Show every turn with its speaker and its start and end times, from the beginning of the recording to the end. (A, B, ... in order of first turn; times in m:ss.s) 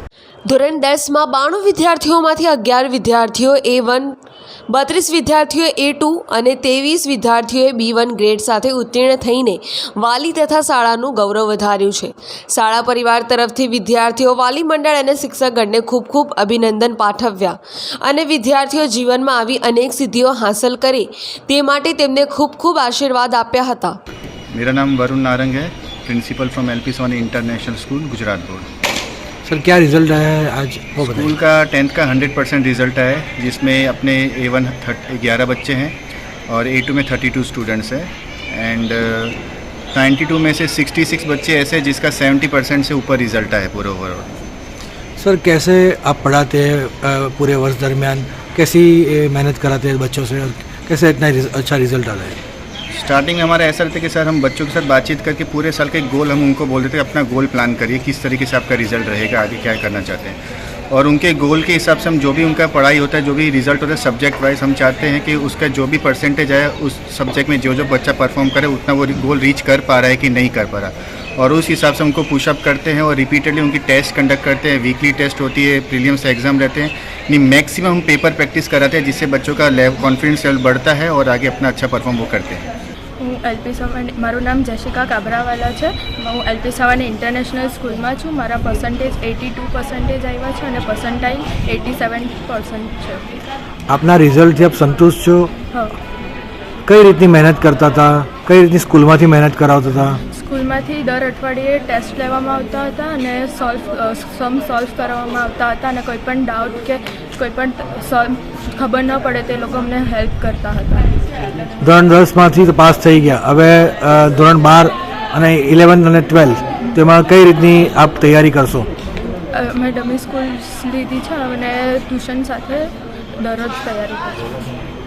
0:00.5-0:04.2 A
0:04.7-0:24.0 A
0:24.5-0:28.7 B
0:29.4-0:31.3 C
0:31.0-0:36.0 B
0:36.5-0:39.4 B
0:39.9-0:44.3 B
0:45.2-0:52.4 C
0:52.9-1:00.4 B
1:00.9-1:22.6 B
1:23.2-1:33.2 D
1:33.9-1:35.5 C
1:36.9-1:40.2 C
1:40.3-1:51.1 D
1:51.8-1:58.9 C
1:59.5-2:04.5 D